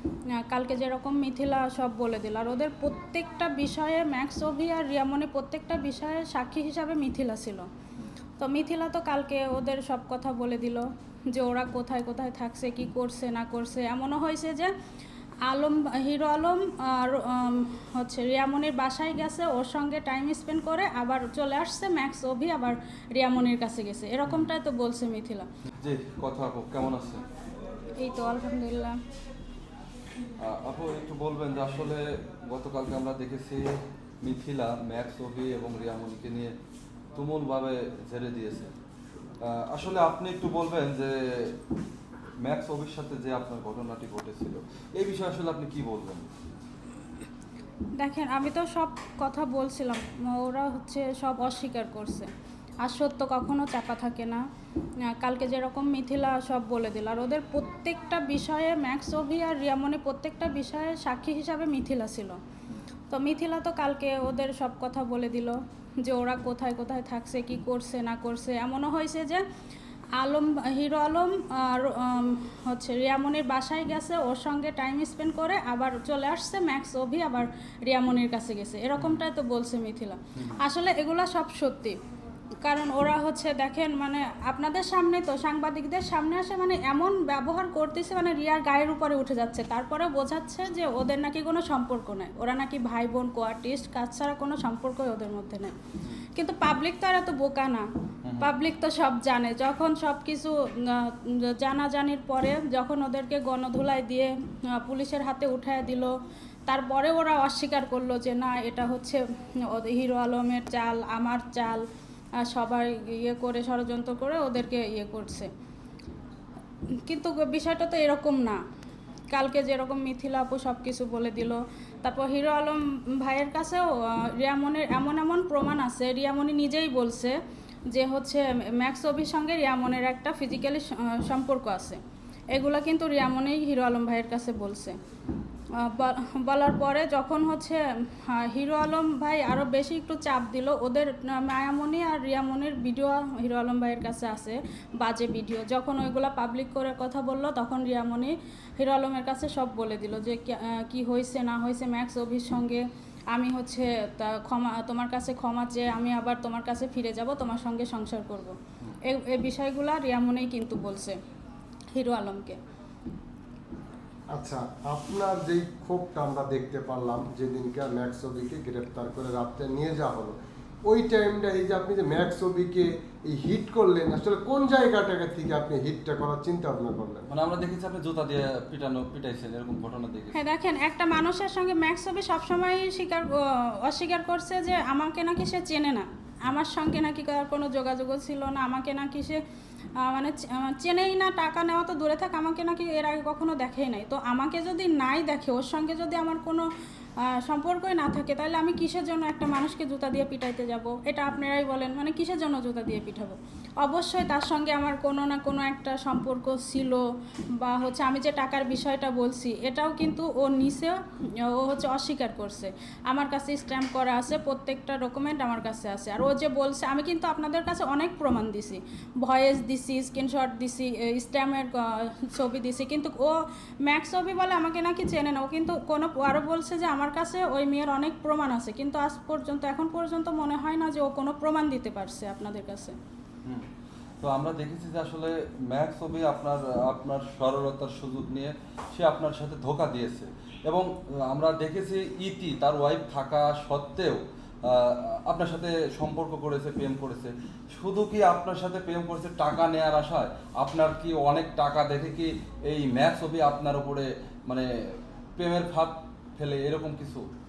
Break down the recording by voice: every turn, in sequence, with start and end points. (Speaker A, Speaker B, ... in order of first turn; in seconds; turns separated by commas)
Speaker A: 0.4-7.7, Speaker A: 8.4-14.7, Speaker A: 15.5-25.5, Speaker B: 25.8-27.2, Speaker A: 28.0-29.0, Speaker B: 30.4-36.5, Speaker B: 37.1-38.7, Speaker B: 39.4-41.6, Speaker B: 42.4-46.2, Speaker A: 48.0-52.3, Speaker A: 52.8-54.4, Speaker A: 55.1-62.4, Speaker A: 63.1-69.4, Speaker A: 70.2-82.0, Speaker A: 82.6-95.7, Speaker A: 96.3-97.9, Speaker B: 98.2-98.5, Speaker A: 98.4-106.1, Speaker A: 106.7-111.8, Speaker A: 112.4-115.5, Speaker A: 117.0-118.6, Speaker A: 119.3-127.4, Speaker A: 127.9-132.0, Speaker A: 132.5-135.0, Speaker A: 135.8-161.2, Speaker A: 161.9-162.6, Speaker C: 164.3-177.3, Speaker B: 177.3-180.4, Speaker A: 180.3-189.4, Speaker A: 190.0-196.7, Speaker A: 197.2-207.0, Speaker A: 207.6-232.9, Speaker B: 234.2-254.7, Speaker B: 255.4-257.2